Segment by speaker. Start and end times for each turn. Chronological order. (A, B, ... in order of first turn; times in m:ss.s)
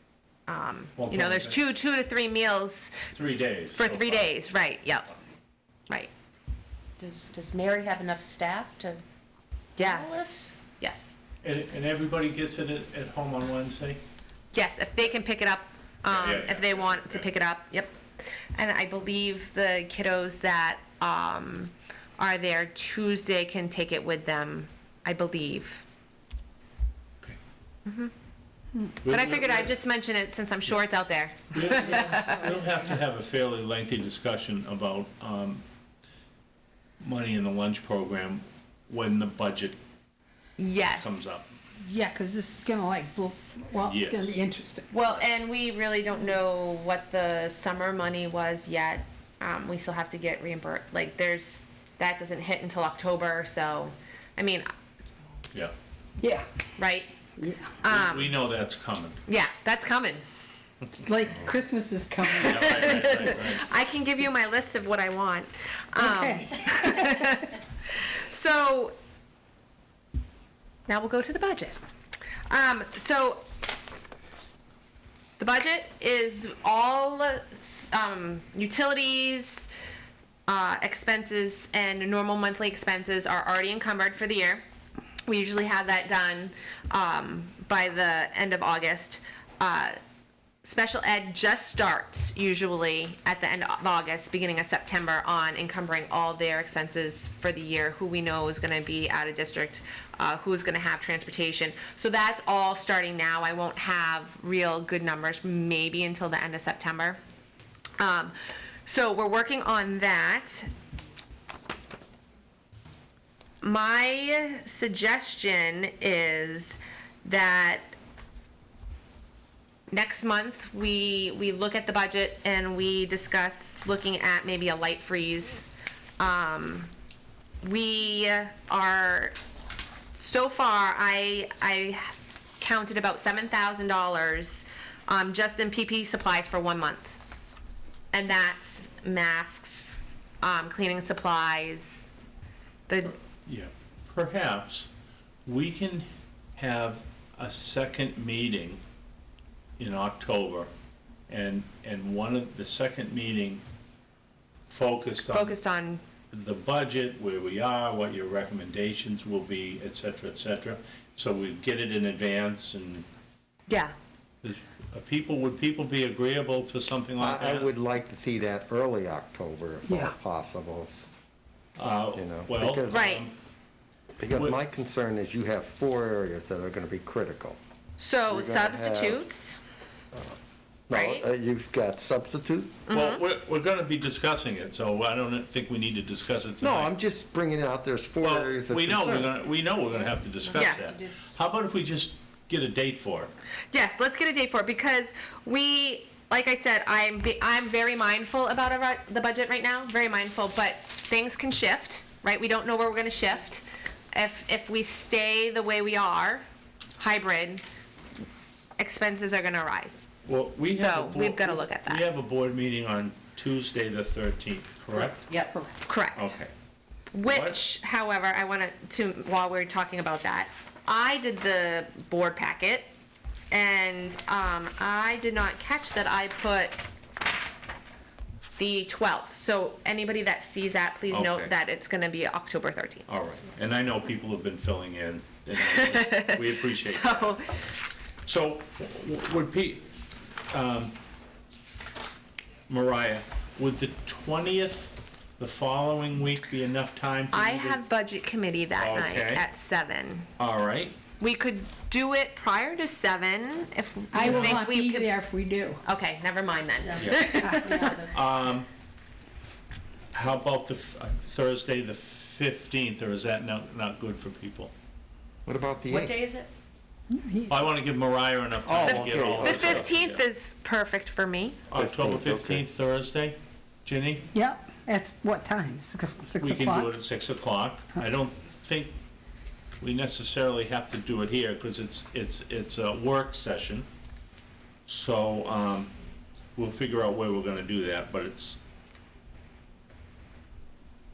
0:00.5-0:02.9 A
0:01.0-0:01.6 B
0:03.1-0:04.4 B
0:03.8-0:05.1 A
0:07.0-0:09.0 C
0:09.8-0:10.5 C
0:09.8-0:11.2 A
0:11.4-0:14.0 B
0:14.5-0:18.0 A
0:16.0-0:17.2 B
0:18.5-0:25.8 A
0:27.8-0:28.1 A
0:29.0-0:29.7 B
0:29.0-0:32.7 A
0:31.5-0:35.6 B
0:37.0-0:39.8 B
0:40.6-0:41.4 A
0:40.9-0:41.6 B
0:41.8-0:44.9 D
0:43.8-0:44.4 B
0:44.9-0:54.7 A
0:56.2-0:56.5 D
0:56.8-0:57.1 A
0:57.4-0:57.7 D
0:57.8-0:58.4 A
0:57.9-0:59.2 B
0:59.3-1:00.2 A
1:01.0-1:03.2 D
1:02.3-1:08.9 A
1:02.4-1:03.7 B
1:06.0-1:07.4 D
1:10.9-1:11.8 A
1:12.5-1:13.4 A
1:15.4-1:19.7 A
1:20.5-1:24.6 A
1:25.2-1:30.0 A
1:30.6-1:47.2 A
1:48.0-1:48.3 A
1:48.8-1:50.7 A
1:53.6-1:57.9 A
1:59.9-2:05.7 A
2:06.2-2:06.9 A
2:07.6-2:09.3 A
2:10.2-2:17.2 A
2:18.1-2:22.1 A
2:22.9-2:23.2 A
2:23.4-2:24.9 B
2:25.4-2:28.8 B
2:29.8-2:30.7 B
2:31.3-2:33.6 B
2:34.7-2:35.6 B
2:35.3-2:36.0 A
2:36.3-2:43.0 B
2:43.7-2:43.9 A
2:44.4-2:47.7 B
2:47.2-2:50.9 E
2:49.9-2:50.1 D
2:51.8-2:53.3 B
2:52.1-2:53.2 E
2:52.9-2:53.3 A
2:54.2-2:57.6 E
2:58.0-2:59.6 A
2:58.3-2:59.2 E
3:00.9-3:02.8 E
3:00.9-3:01.2 A
3:02.9-3:03.2 A
3:02.9-3:06.9 B
3:06.6-3:09.4 E
3:08.2-3:13.3 B
3:10.5-3:10.8 A
3:13.7-3:26.4 A
3:27.0-3:27.6 A
3:28.8-3:30.1 A
3:30.2-3:35.2 B
3:30.7-3:32.0 A
3:35.8-3:36.4 A
3:36.1-3:36.5 B
3:37.1-3:42.9 A
3:37.3-3:37.6 B
3:43.5-3:46.8 A
3:48.6-3:53.0 A
3:51.1-3:51.5 B
3:53.1-3:57.3 B
3:55.7-3:57.7 A
3:58.2-3:59.8 B
4:00.5-4:00.9 B
4:02.7-4:07.8 B
4:07.3-4:10.3 A
4:08.8-4:09.4 B
4:10.4-4:11.0 B
4:11.2-4:15.1 A
4:14.1-4:15.8 D
4:14.2-4:14.6 B
4:15.8-4:18.0 A
4:16.9-4:18.1 C
4:17.0-4:17.4 B
4:17.2-4:18.0 D
4:18.0-4:18.7 B
4:20.1-4:24.7 B
4:25.4-4:26.2 E
4:25.9-4:26.5 C
4:27.1-4:27.5 D
4:27.5-4:30.2 B
4:28.6-4:29.9 E
4:28.8-4:31.6 A
4:31.7-4:34.2 B
4:31.7-4:32.6 E
4:34.3-4:36.9 D
4:36.4-4:38.9 B
4:39.8-4:43.9 B
4:44.9-4:45.9 B
4:46.6-4:48.6 B